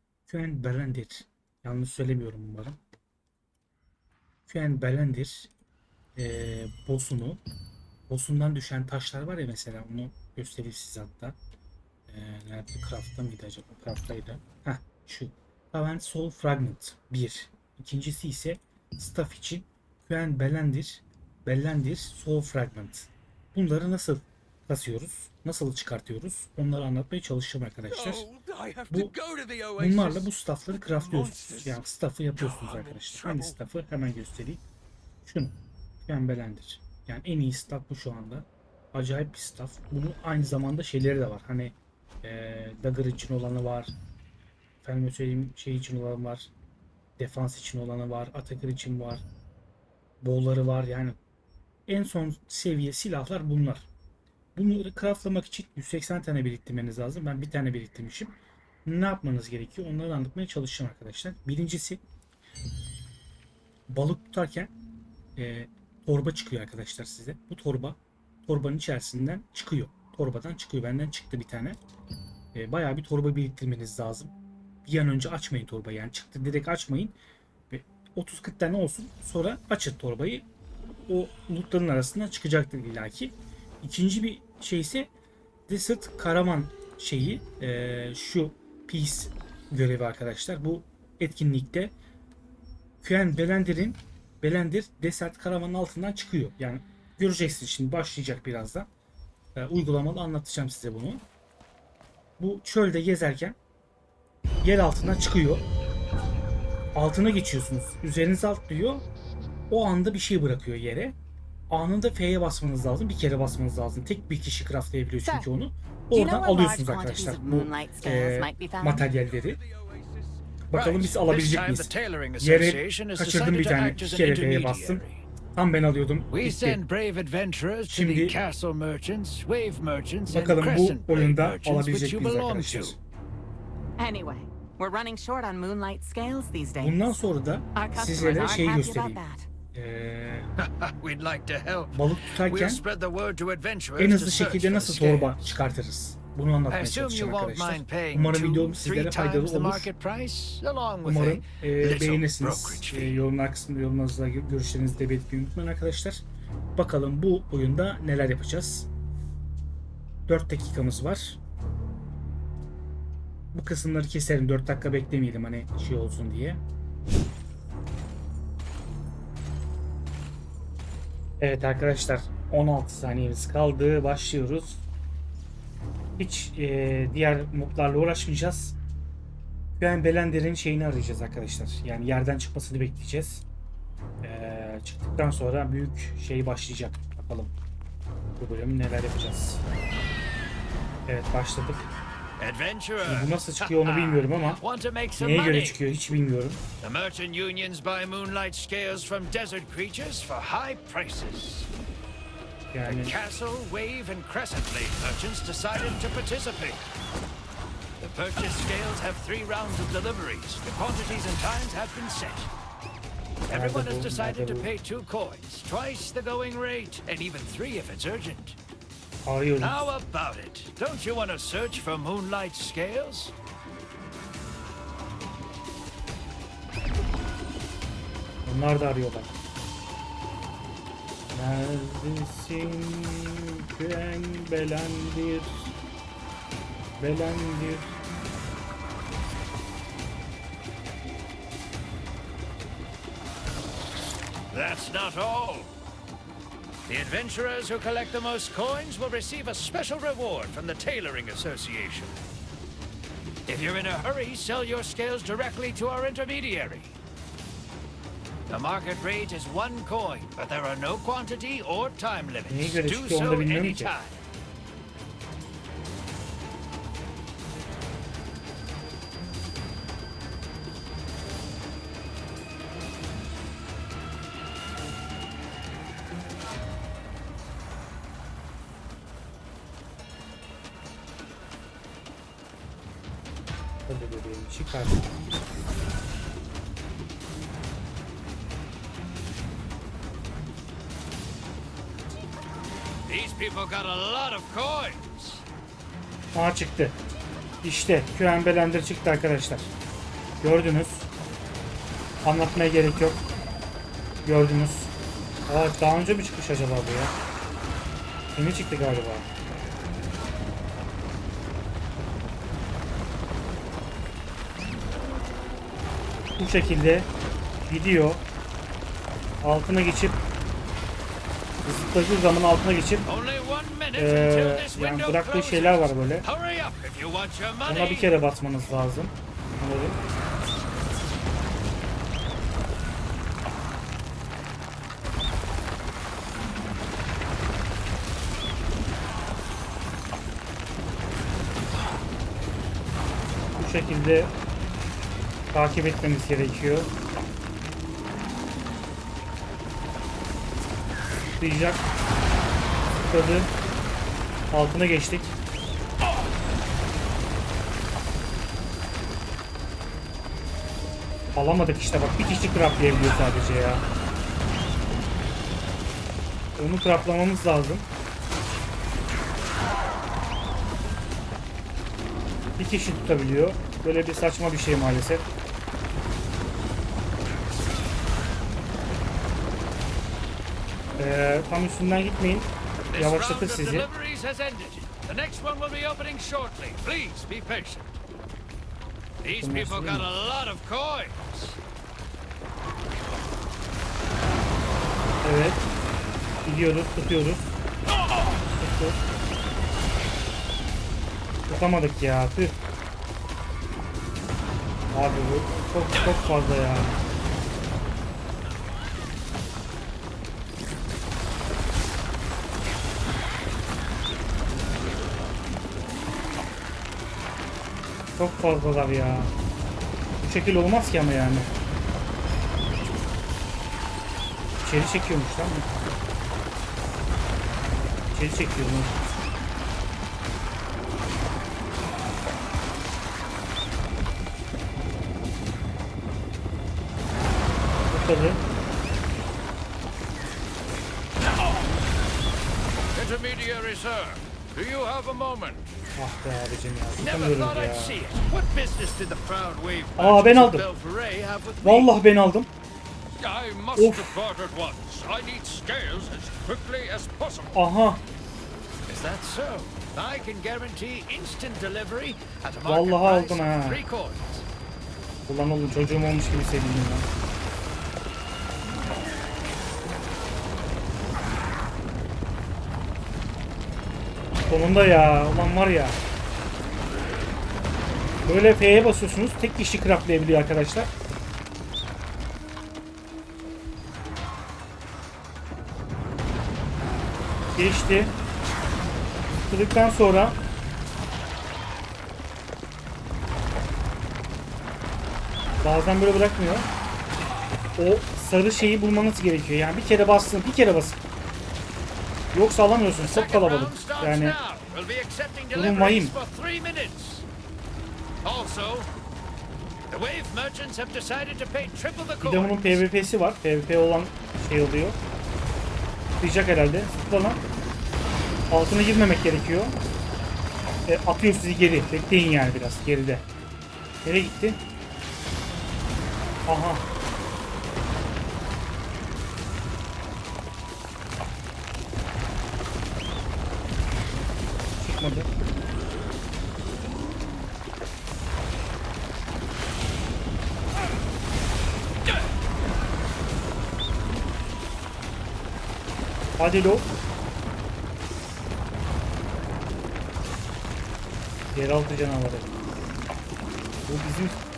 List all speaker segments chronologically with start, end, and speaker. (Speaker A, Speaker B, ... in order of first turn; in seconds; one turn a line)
Speaker A: 0.3-2.8
Speaker A: 4.5-5.5
Speaker A: 6.2-7.4
Speaker A: 8.1-11.4
Speaker A: 12.1-28.3
Speaker B: 27.9-30.3
Speaker A: 29.8-34.6
Speaker B: 30.8-31.8
Speaker B: 32.4-33.5
Speaker A: 35.2-43.9
Speaker A: 44.8-46.5
Speaker A: 47.2-49.2
Speaker A: 50.2-51.2
Speaker A: 51.9-53.9
Speaker A: 54.5-62.0
Speaker A: 63.9-64.7
Speaker A: 65.3-71.8
Speaker A: 72.5-74.3
Speaker A: 74.8-77.1
Speaker A: 77.7-80.5
Speaker A: 81.1-85.1
Speaker A: 85.7-91.9
Speaker A: 93.0-98.9
Speaker A: 99.5-101.2
Speaker A: 102.4-103.6
Speaker A: 104.6-105.6
Speaker A: 106.9-109.0
Speaker A: 109.7-111.1
Speaker A: 111.7-119.6
Speaker C: 116.1-119.1
Speaker B: 119.8-120.1
Speaker A: 120.7-125.0
Speaker B: 120.7-125.2
Speaker A: 125.5-126.8
Speaker B: 126.3-133.0
Speaker A: 127.9-128.4
Speaker A: 130.3-133.0
Speaker C: 134.0-137.2
Speaker A: 136.8-139.2
Speaker C: 137.8-139.5
Speaker A: 139.7-140.5
Speaker B: 140.6-145.6
Speaker A: 141.9-142.8
Speaker A: 144.0-149.9
Speaker B: 146.7-153.2
Speaker A: 151.0-156.2
Speaker A: 156.8-158.9
Speaker A: 160.3-161.4
Speaker A: 163.5-166.6
Speaker A: 171.4-174.8
Speaker A: 176.2-178.8
Speaker A: 179.8-183.4
Speaker A: 184.2-187.5
Speaker A: 188.4-189.6
Speaker A: 191.1-191.9
Speaker B: 192.4-195.8
Speaker A: 193.0-194.6
Speaker A: 195.2-196.6
Speaker B: 196.8-201.7
Speaker A: 202.7-203.2
Speaker B: 202.8-206.8
Speaker B: 208.0-212.5
Speaker B: 213.5-218.6
Speaker A: 213.5-214.7
Speaker A: 219.2-219.9
Speaker B: 219.6-223.3
Speaker A: 228.4-229.3
Speaker A: 231.3-235.7
Speaker A: 237.0-238.0
Speaker B: 244.5-245.7
Speaker B: 246.9-252.2
Speaker B: 253.5-256.9
Speaker B: 258.5-264.2
Speaker A: 262.5-263.9
Speaker A: 283.9-285.1
Speaker B: 293.1-295.4
Speaker A: 296.3-297.0
Speaker A: 297.6-299.7
Speaker A: 300.4-301.1
Speaker A: 302.2-303.2
Speaker A: 304.2-304.9
Speaker A: 305.5-307.1
Speaker A: 308.3-309.3
Speaker A: 316.4-317.1
Speaker A: 317.7-318.2
Speaker A: 319.4-320.2
Speaker A: 321.6-323.1
Speaker B: 323.0-328.1
Speaker A: 323.9-326.2
Speaker A: 327.6-330.0
Speaker A: 343.6-344.3
Speaker A: 345.5-346.9
Speaker A: 351.4-351.8
Speaker A: 353.0-353.5
Speaker A: 354.5-355.3
Speaker A: 361.3-363.8
Speaker A: 366.6-367.9
Speaker A: 372.6-375.2
Speaker A: 381.0-383.9
Speaker B: 382.9-387.9
Speaker B: 389.2-391.6
Speaker A: 389.4-390.1
Speaker A: 395.2-395.6
Speaker A: 396.4-397.5
Speaker A: 398.5-399.0
Speaker A: 401.5-402.6
Speaker A: 404.9-406.9
Speaker A: 418.1-419.3
Speaker A: 420.2-421.5
Speaker A: 424.6-425.7
Speaker A: 428.1-429.1
Speaker A: 437.9-438.4
Speaker B: 442.9-445.6
Speaker A: 446.0-448.0
Speaker B: 447.0-451.9
Speaker A: 450.0-450.6
Speaker A: 451.6-452.5
Speaker B: 453.2-457.6
Speaker A: 453.8-454.1
Speaker A: 457.5-458.0
Speaker B: 458.9-464.4
Speaker A: 462.6-463.8
Speaker A: 465.3-467.1
Speaker A: 474.5-476.0
Speaker A: 478.2-480.9
Speaker A: 487.5-488.1
Speaker A: 489.4-490.4
Speaker A: 495.6-496.7
Speaker A: 497.8-501.0
Speaker A: 502.3-504.4
Speaker B: 503.0-507.2
Speaker A: 505.5-506.1
Speaker B: 508.2-508.9
Speaker B: 509.9-512.8
Speaker A: 512.2-515.0
Speaker A: 516.2-517.4
Speaker A: 518.5-519.8
Speaker A: 520.9-523.2
Speaker A: 524.0-524.6
Speaker A: 526.5-526.8
Speaker A: 534.8-535.3
Speaker A: 546.4-546.9
Speaker A: 551.5-552.5
Speaker A: 553.9-554.4